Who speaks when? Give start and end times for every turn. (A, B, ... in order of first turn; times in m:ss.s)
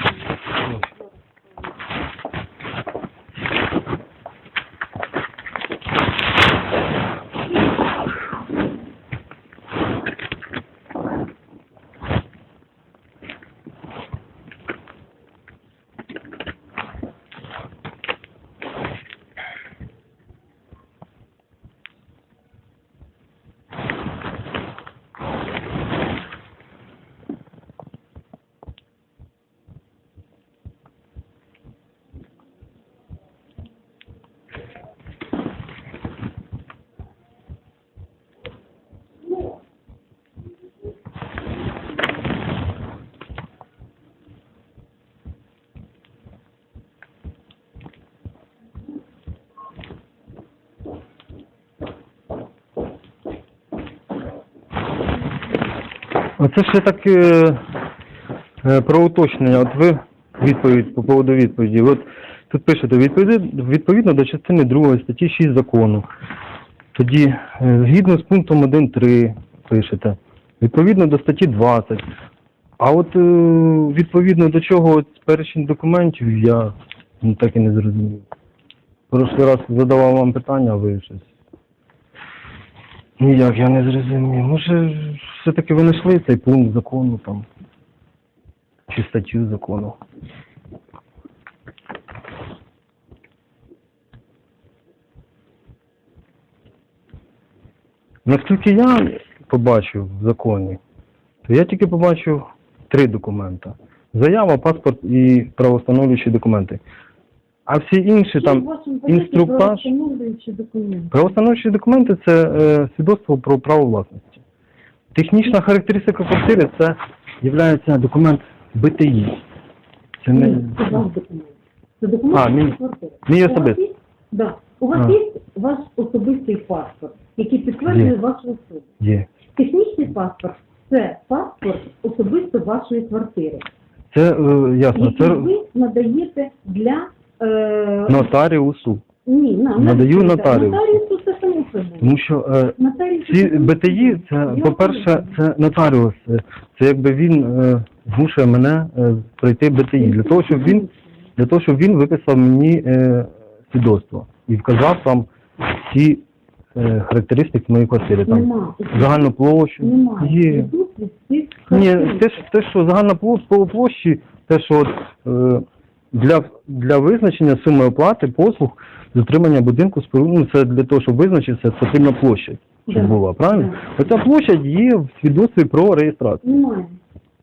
0:56.4-0:57.6 A
0:58.6-1:06.1 A
1:06.9-1:12.1 A
1:12.8-1:18.2 A
1:19.1-1:21.3 A
1:23.2-1:27.5 A
1:28.9-1:30.0 A
1:38.2-1:40.8 A
1:41.4-1:46.8 A
1:47.7-1:49.9 A
1:48.3-1:51.2 B
1:51.1-1:54.4 A
1:55.1-1:59.4 A
2:00.2-2:01.0 A
2:00.3-2:08.9 B
2:02.3-2:03.8 A
2:07.9-2:08.1 A
2:09.0-2:09.3 A
2:09.6-2:13.6 B
2:14.1-2:15.5 A
2:14.9-2:18.3 B
2:18.1-2:19.0 A
2:19.2-2:22.2 B
2:19.8-2:21.0 A
2:22.0-2:30.8 A
2:22.8-2:25.4 B
2:30.0-2:31.1 B
2:31.4-2:35.3 A
2:35.8-2:36.2 A
2:36.7-2:40.7 A
2:38.2-2:42.4 B
2:41.7-2:56.4 A
2:52.9-2:53.8 B
2:56.4-2:57.0 B